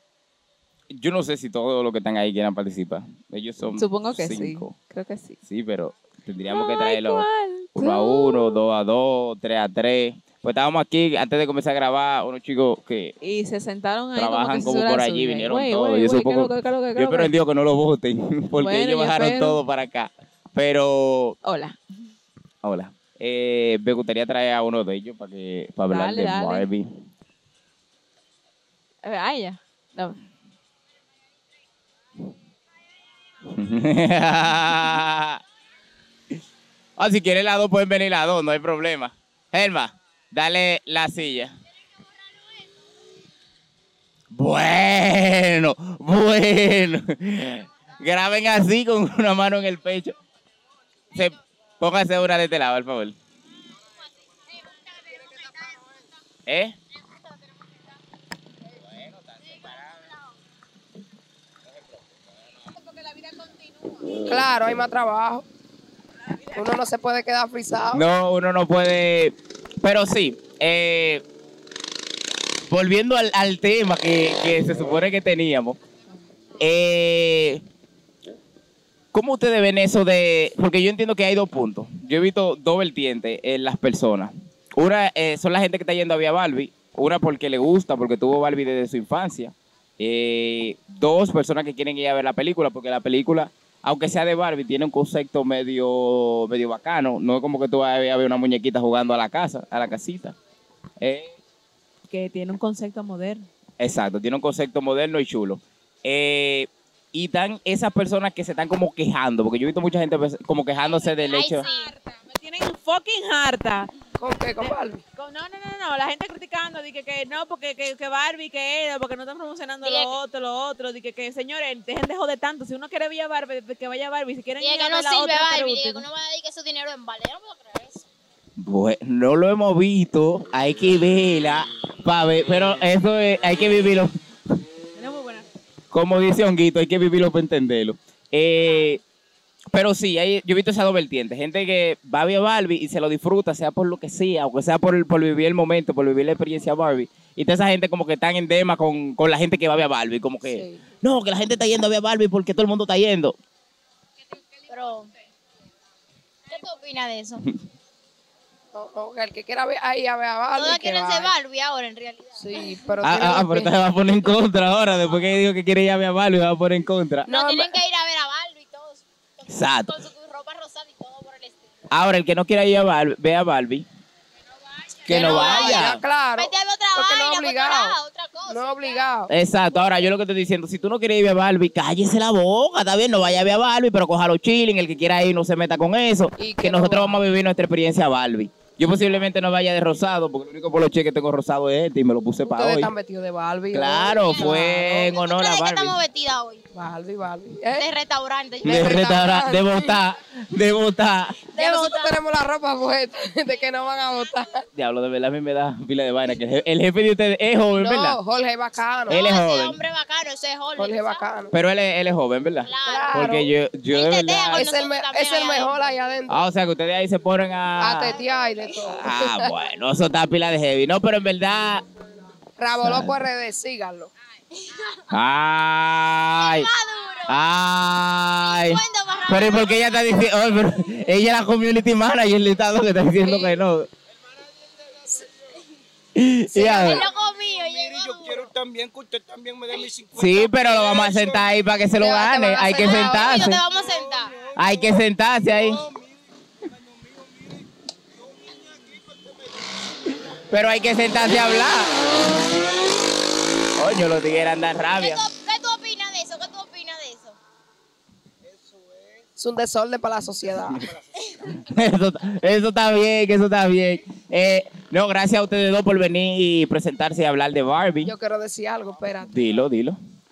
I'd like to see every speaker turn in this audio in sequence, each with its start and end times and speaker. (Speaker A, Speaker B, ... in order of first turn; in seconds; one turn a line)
Speaker A: 0.9-4.8
Speaker B: 3.8-5.4
Speaker A: 5.5-13.2
Speaker B: 6.5-8.6
Speaker B: 13.2-17.3
Speaker A: 14.2-21.4
Speaker B: 18.6-19.6
Speaker B: 21.4-21.8
Speaker A: 22.6-26.9
Speaker B: 25.9-26.7
Speaker B: 29.0-30.2
Speaker A: 33.5-35.4
Speaker A: 37.0-41.5
Speaker A: 44.3-50.2
Speaker A: 51.1-53.2
Speaker C: 55.1-55.7
Speaker A: 56.5-56.8
Speaker D: 64.2-65.5
Speaker D: 66.5-68.0
Speaker A: 67.9-71.2
Speaker A: 72.7-75.8
Speaker A: 76.6-77.6
Speaker A: 79.1-100.4
Speaker A: 101.0-101.4
Speaker B: 102.1-103.5
Speaker A: 103.8-111.7
Speaker C: 111.2-111.9
Speaker B: 111.6-113.9
Speaker D: 114.2-115.0
Speaker B: 114.6-126.0
Speaker C: 119.8-120.2
Speaker C: 124.6-128.0
Speaker A: 128.6-134.1
Speaker B: 135.0-135.5
Speaker A: 135.9-139.0
Speaker A: 139.7-153.4
Speaker D: 150.5-150.8
Speaker C: 154.7-155.1
Speaker C: 156.5-157.5
Speaker D: 158.7-161.3
Speaker C: 160.5-162.8
Speaker D: 162.4-163.7
Speaker A: 163.0-167.3
Speaker D: 167.3-167.8
Speaker C: 167.3-171.7
Speaker A: 169.5-170.0
Speaker A: 171.9-173.9
Speaker C: 175.0-179.1
Speaker A: 175.1-176.0
Speaker D: 175.1-178.0
Speaker D: 178.5-179.3
Speaker A: 179.3-192.9
Speaker D: 186.4-187.2
Speaker D: 192.4-195.1
Speaker A: 193.7-196.0
Speaker C: 194.2-196.6
Speaker D: 196.7-197.9
Speaker C: 197.7-198.9
Speaker D: 198.6-199.9
Speaker A: 198.6-201.5
Speaker C: 201.6-202.2
Speaker D: 201.6-204.7
Speaker A: 204.8-208.2
Speaker D: 207.8-209.2
Speaker A: 209.1-209.8
Speaker C: 209.1-211.3
Speaker D: 210.8-211.5
Speaker A: 211.5-214.7
Speaker C: 212.7-213.3
Speaker D: 212.8-213.5
Speaker C: 213.9-215.8
Speaker D: 214.5-216.4
Speaker A: 216.3-218.2
Speaker D: 217.8-219.5
Speaker A: 218.8-221.8
Speaker D: 222.6-224.1
Speaker A: 222.8-223.1
Speaker C: 224.5-225.0
Speaker A: 225.1-226.7
Speaker C: 226.4-227.4
Speaker A: 227.3-233.9
Speaker C: 228.4-230.3
Speaker D: 233.3-233.5
Speaker A: 236.2-237.1
Speaker D: 236.5-237.1
Speaker C: 236.6-238.5
Speaker E: 237.6-240.5
Speaker A: 240.2-243.6
Speaker C: 240.5-241.2
Speaker E: 241.1-241.4
Speaker D: 242.0-243.6
Speaker C: 242.7-244.4
Speaker E: 243.8-247.6
Speaker A: 244.6-245.8
Speaker E: 248.2-249.3
Speaker A: 250.5-252.3
Speaker A: 253.8-255.2
Speaker C: 255.0-257.4
Speaker E: 258.5-259.0
Speaker D: 259.4-260.9
Speaker A: 261.6-268.1
Speaker D: 268.0-269.3
Speaker A: 269.2-270.0